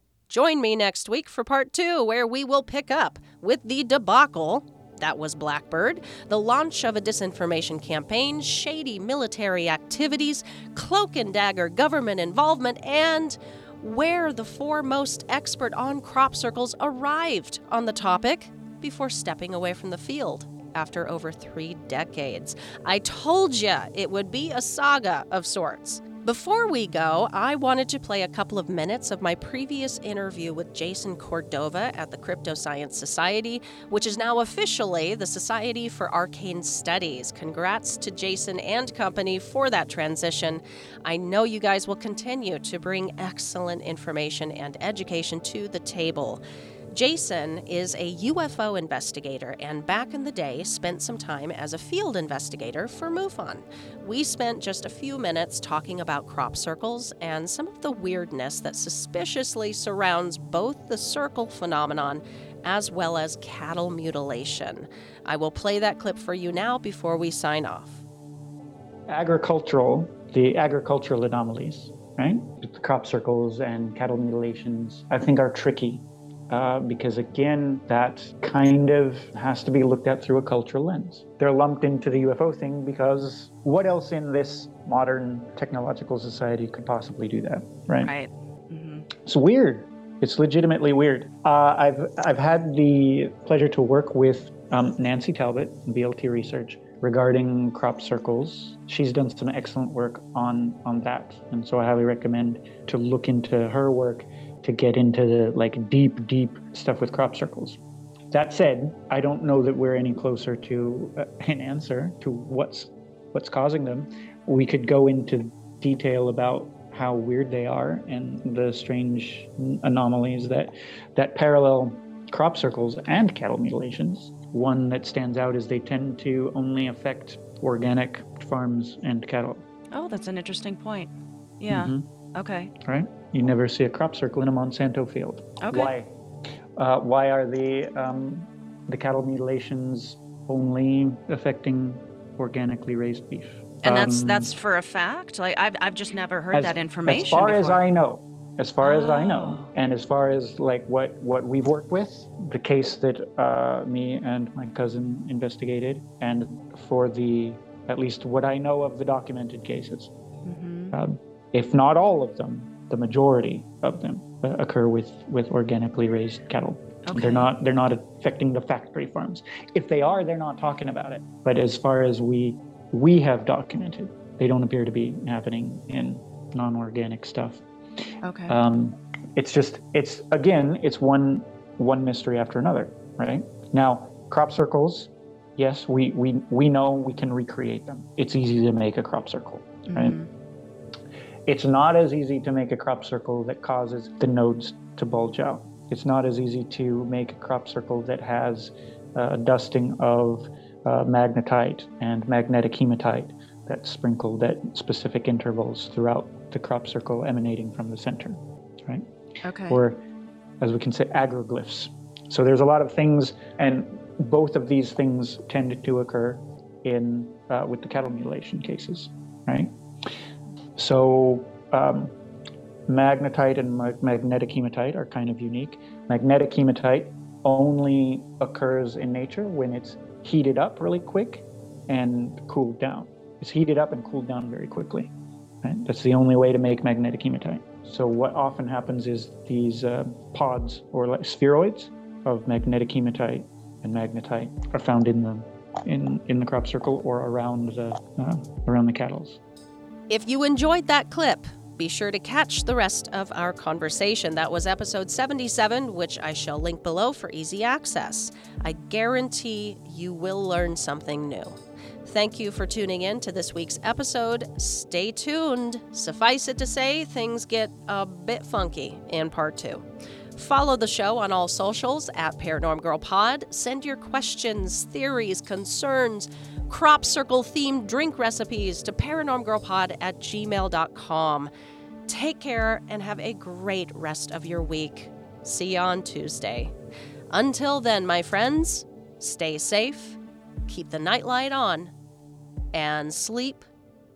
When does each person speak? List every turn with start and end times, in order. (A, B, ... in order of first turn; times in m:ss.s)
0:00.3-1:08.0 A
1:09.1-1:28.1 B
1:28.0-1:29.1 C
1:29.2-1:47.8 B
1:48.3-2:09.6 B
2:09.9-2:12.7 C
2:11.7-2:12.0 B
2:12.8-2:16.1 B
2:15.6-2:15.9 C
2:16.8-2:24.5 B
2:23.8-2:27.8 C
2:26.5-2:40.1 B
2:28.8-2:29.7 C
2:40.4-2:41.0 C
2:40.9-2:57.6 B
2:47.0-2:47.5 C
2:58.2-2:58.6 C
2:58.5-3:10.2 B
3:09.9-3:10.3 C
3:11.5-3:29.0 B
3:29.4-3:29.8 C
3:29.7-3:30.0 B
3:30.6-3:39.7 B
3:40.8-3:42.1 B
3:42.9-4:09.4 B
4:10.1-4:41.5 A
4:42.1-4:46.7 A
4:47.3-4:51.9 A
4:52.7-4:53.6 A